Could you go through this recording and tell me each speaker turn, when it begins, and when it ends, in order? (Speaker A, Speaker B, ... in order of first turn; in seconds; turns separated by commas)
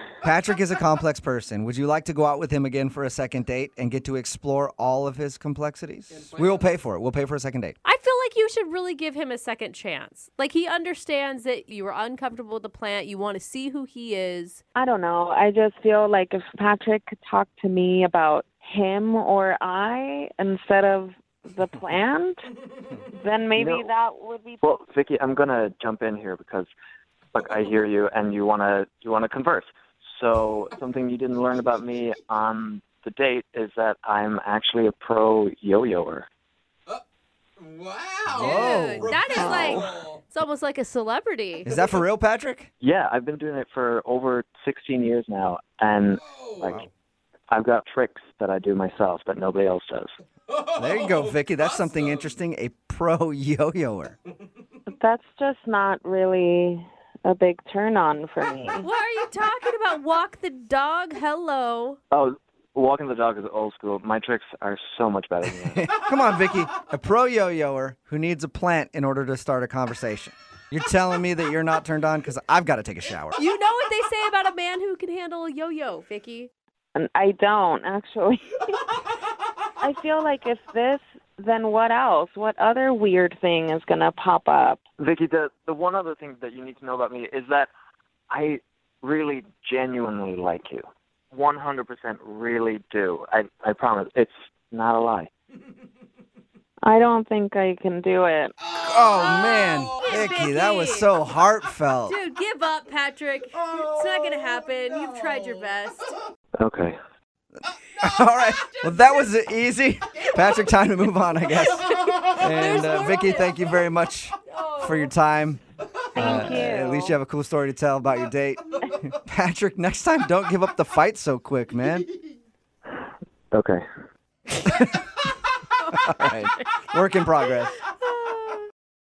Speaker A: 0.2-7.8, Speaker B: 6.1-6.7, Speaker C: 7.8-14.6, Speaker D: 14.7-22.4, Speaker D: 23.1-24.6, Speaker E: 23.6-23.9, Speaker E: 24.6-26.7, Speaker E: 27.3-36.3, Speaker B: 37.6-40.3, Speaker A: 38.3-39.7, Speaker C: 38.4-41.7, Speaker D: 39.5-39.8, Speaker A: 41.6-42.7, Speaker E: 42.8-46.8, Speaker B: 46.1-46.9, Speaker E: 47.5-50.1, Speaker B: 50.5-52.3, Speaker A: 50.8-54.1, Speaker D: 54.9-58.9, Speaker C: 58.8-62.0, Speaker E: 62.1-65.8, Speaker A: 65.7-73.3, Speaker C: 73.3-76.5, Speaker D: 76.9-78.9, Speaker D: 79.8-84.8, Speaker E: 85.0-87.7, Speaker E: 88.3-95.3, Speaker D: 96.8-98.5, Speaker B: 98.6-100.3, Speaker A: 98.8-102.2, Speaker C: 100.1-101.1, Speaker C: 102.1-106.0, Speaker B: 103.5-106.1, Speaker E: 106.6-107.0, Speaker B: 108.0-109.3, Speaker A: 108.0-115.6, Speaker B: 110.2-110.5, Speaker B: 111.8-112.6, Speaker C: 112.5-113.5, Speaker C: 114.5-115.1, Speaker D: 116.2-117.2, Speaker A: 116.2-122.1, Speaker E: 123.5-123.8, Speaker A: 124.7-125.0, Speaker A: 126.0-127.7, Speaker C: 128.0-128.4